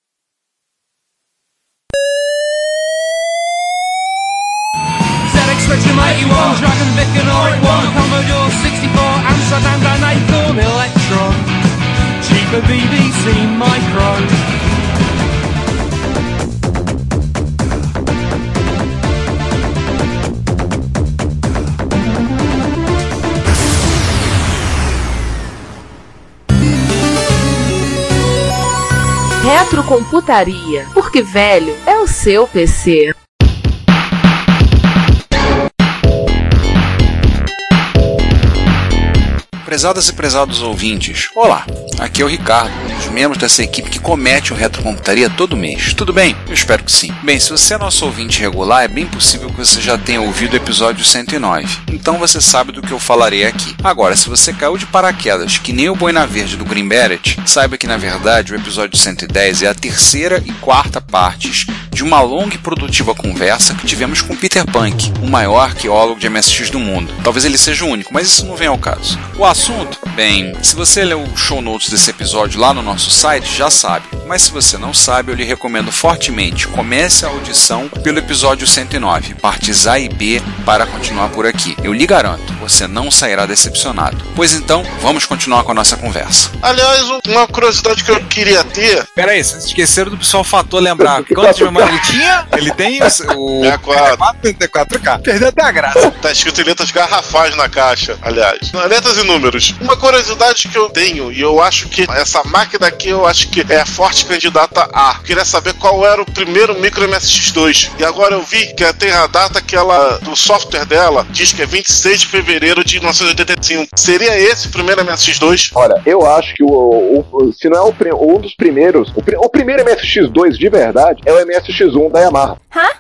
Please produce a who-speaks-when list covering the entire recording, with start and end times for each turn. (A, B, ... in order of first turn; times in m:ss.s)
0:05.2-0:11.5 A
0:12.2-0:14.4 A
0:29.4-0:33.1 B
0:39.6-1:26.5 C
1:26.6-1:29.1 D
1:29.2-1:36.1 E
1:31.2-1:31.9 F
1:33.6-1:34.2 D
1:36.2-1:55.7 D
1:55.7-2:02.6 F